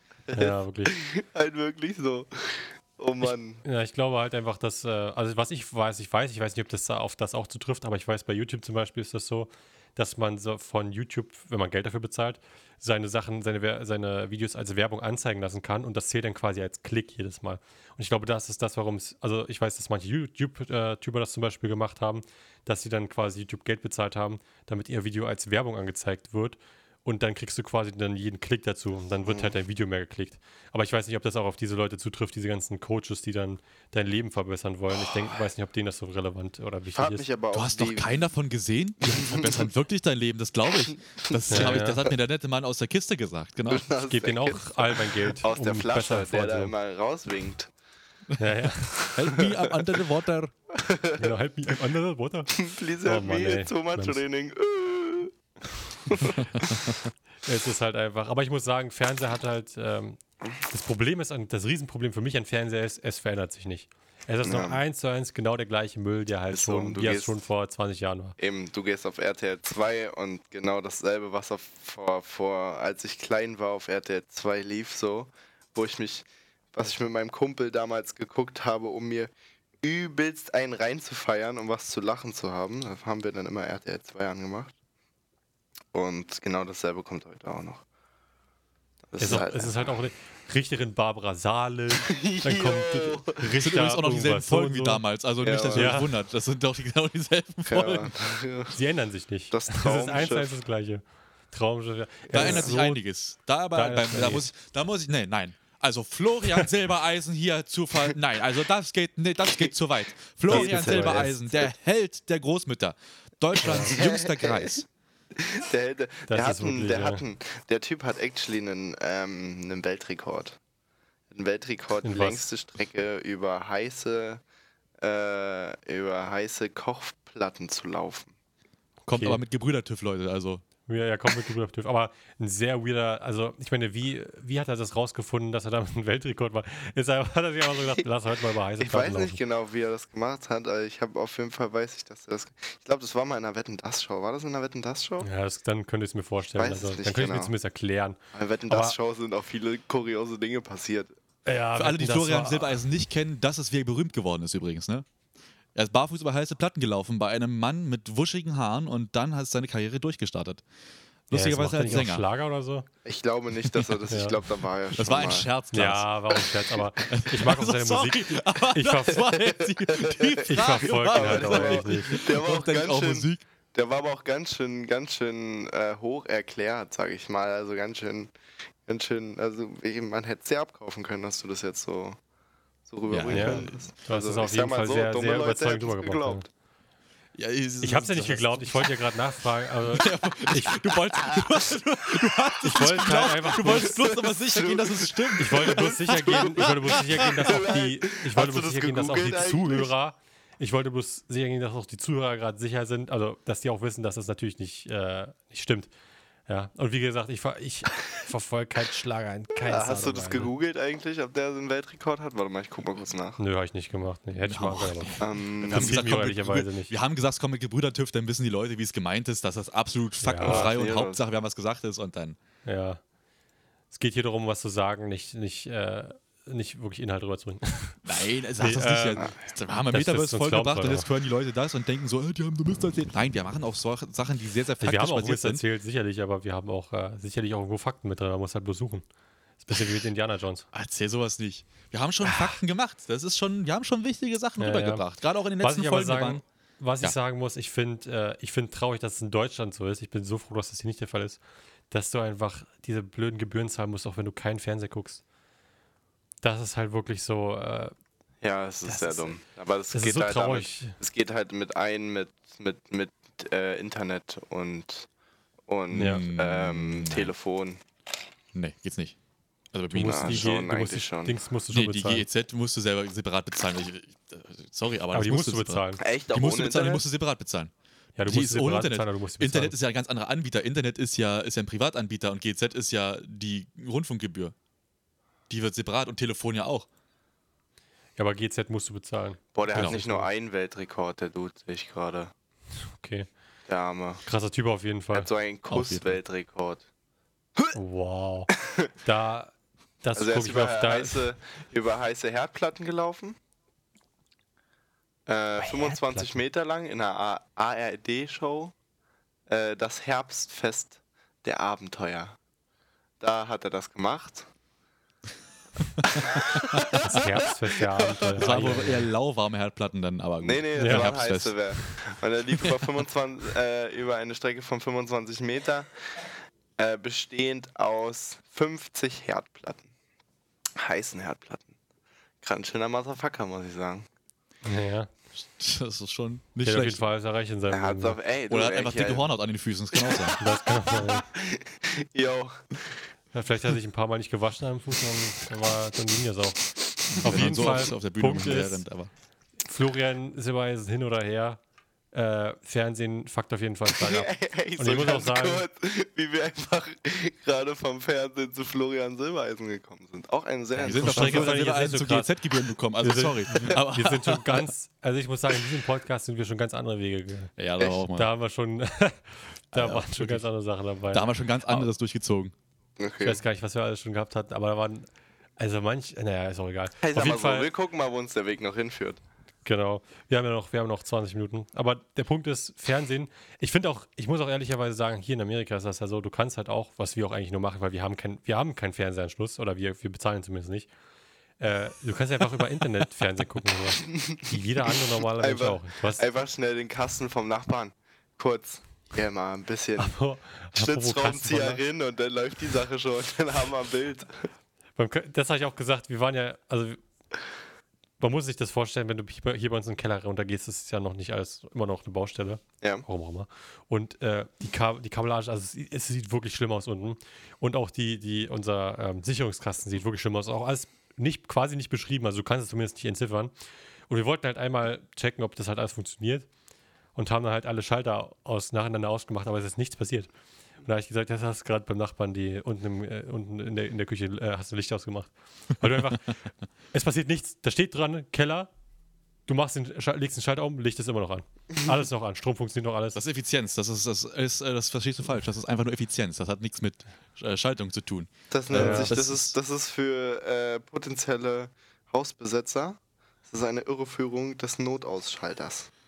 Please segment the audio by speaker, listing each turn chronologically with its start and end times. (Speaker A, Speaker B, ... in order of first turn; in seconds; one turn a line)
Speaker A: 0.3-3.6
Speaker B: 0.3-0.9
Speaker B: 3.2-37.2
Speaker A: 29.2-29.5
Speaker C: 34.9-35.4
Speaker A: 36.9-38.3
Speaker C: 37.5-43.9
Speaker A: 39.2-39.7
Speaker A: 41.3-41.8
Speaker B: 41.5-42.0
Speaker A: 43.7-47.7
Speaker B: 44.0-46.7
Speaker B: 48.4-49.0
Speaker C: 49.0-50.5
Speaker A: 49.3-49.9
Speaker A: 50.7-51.3
Speaker B: 51.2-54.2
Speaker A: 52.5-55.3
Speaker A: 56.0-56.7
Speaker B: 57.4-68.3
Speaker A: 64.4-64.8
Speaker A: 66.5-67.4
Speaker A: 68.4-84.7
Speaker A: 85.9-87.8
Speaker A: 89.1-90.0
Speaker B: 89.2-95.0
Speaker A: 92.0-93.5
Speaker C: 93.6-98.4
Speaker A: 95.4-96.0
Speaker B: 95.7-96.1
Speaker A: 97.7-98.8
Speaker B: 98.7-103.0
Speaker A: 99.5-100.5
Speaker A: 102.3-102.7
Speaker C: 102.3-114.8
Speaker B: 103.7-104.5
Speaker B: 110.5-111.3
Speaker A: 110.5-111.7
Speaker A: 113.6-114.8
Speaker B: 113.6-113.9
Speaker A: 115.3-120.6
Speaker B: 116.3-117.2
Speaker A: 121.3-124.4
Speaker B: 122.0-122.5
Speaker A: 125.0-128.3
Speaker B: 129.1-129.4
Speaker C: 129.1-130.6
Speaker B: 130.9-139.4
Speaker A: 138.8-145.3
Speaker B: 145.2-148.9
Speaker A: 146.6-147.5
Speaker A: 148.3-151.1
Speaker B: 151.4-152.8
Speaker C: 151.8-155.0
Speaker C: 155.7-160.6
Speaker C: 161.3-162.2
Speaker B: 161.3-162.9
Speaker A: 163.0-165.5
Speaker B: 164.1-164.4
Speaker C: 164.9-166.3
Speaker B: 165.7-169.3
Speaker C: 167.0-173.4
Speaker A: 169.6-178.3
Speaker B: 170.4-172.2
Speaker A: 178.8-182.2
Speaker A: 182.8-186.4
Speaker C: 183.1-183.8
Speaker B: 183.3-186.4
Speaker C: 187.3-188.9
Speaker B: 187.8-190.9
Speaker C: 189.9-197.3
Speaker B: 192.6-194.0
Speaker A: 193.6-199.9
Speaker B: 195.4-205.9
Speaker B: 206.5-210.5
Speaker A: 209.6-213.4
Speaker B: 213.4-216.9
Speaker C: 214.3-222.4
Speaker A: 215.2-216.1
Speaker B: 220.2-220.7
Speaker A: 220.4-221.2
Speaker B: 222.6-223.0
Speaker B: 223.9-228.1
Speaker C: 228.0-235.6
Speaker B: 228.6-229.3
Speaker B: 229.9-231.1
Speaker B: 234.8-239.0
Speaker B: 239.6-240.7
Speaker C: 239.7-240.0
Speaker C: 240.7-246.4
Speaker B: 242.2-242.6
Speaker B: 244.6-245.0
Speaker B: 245.6-251.4
Speaker B: 251.9-255.2
Speaker B: 256.4-257.9
Speaker A: 258.4-265.1
Speaker B: 258.8-259.3
Speaker B: 259.9-261.0
Speaker A: 265.7-267.8
Speaker C: 265.9-267.3
Speaker B: 265.9-266.2
Speaker C: 268.5-269.2
Speaker C: 269.7-270.5
Speaker B: 269.9-272.2
Speaker A: 270.0-271.4
Speaker C: 271.7-277.7
Speaker B: 275.1-276.0
Speaker A: 276.0-277.0
Speaker B: 278.2-279.7
Speaker C: 278.2-284.5
Speaker C: 285.5-286.9
Speaker B: 288.1-290.3
Speaker A: 289.5-292.3
Speaker B: 292.9-293.3
Speaker A: 293.7-294.2
Speaker B: 294.2-295.3
Speaker A: 295.1-296.8
Speaker C: 295.7-296.2
Speaker B: 297.7-301.2
Speaker A: 298.6-298.9
Speaker A: 300.1-303.4
Speaker A: 305.3-308.7
Speaker A: 309.5-312.4
Speaker A: 313.2-314.5
Speaker C: 316.0-316.3
Speaker A: 316.4-317.2
Speaker B: 317.1-319.1
Speaker A: 318.1-318.5
Speaker C: 318.4-322.0
Speaker A: 320.4-326.2
Speaker B: 320.8-321.1
Speaker A: 326.8-329.9
Speaker A: 330.8-331.7
Speaker A: 332.4-334.1
Speaker B: 334.6-335.1
Speaker C: 335.6-337.0
Speaker B: 336.6-338.2
Speaker A: 337.7-339.3
Speaker C: 338.5-340.4
Speaker A: 339.9-340.3
Speaker B: 340.4-341.2
Speaker A: 340.9-342.9
Speaker B: 343.3-348.8
Speaker C: 347.1-349.1
Speaker B: 349.6-351.6
Speaker B: 352.1-355.6
Speaker A: 353.9-361.6
Speaker C: 360.8-364.7
Speaker B: 361.0-362.4
Speaker B: 363.0-367.5
Speaker C: 367.6-368.3
Speaker A: 367.8-368.0
Speaker B: 368.1-371.9
Speaker C: 369.7-370.5
Speaker C: 371.1-372.5
Speaker A: 373.0-373.4
Speaker B: 373.2-375.1
Speaker B: 375.6-377.7
Speaker A: 377.0-379.2
Speaker B: 379.6-390.9
Speaker B: 391.6-396.2
Speaker A: 394.1-400.1
Speaker B: 400.0-401.8
Speaker A: 400.7-404.5
Speaker B: 404.9-407.0
Speaker B: 408.2-423.5
Speaker A: 412.8-413.1
Speaker B: 424.1-426.5
Speaker B: 427.1-430.3
Speaker B: 430.8-436.4
Speaker B: 436.9-438.7
Speaker B: 439.5-443.2
Speaker C: 443.1-449.5
Speaker A: 448.5-455.9
Speaker B: 448.7-449.1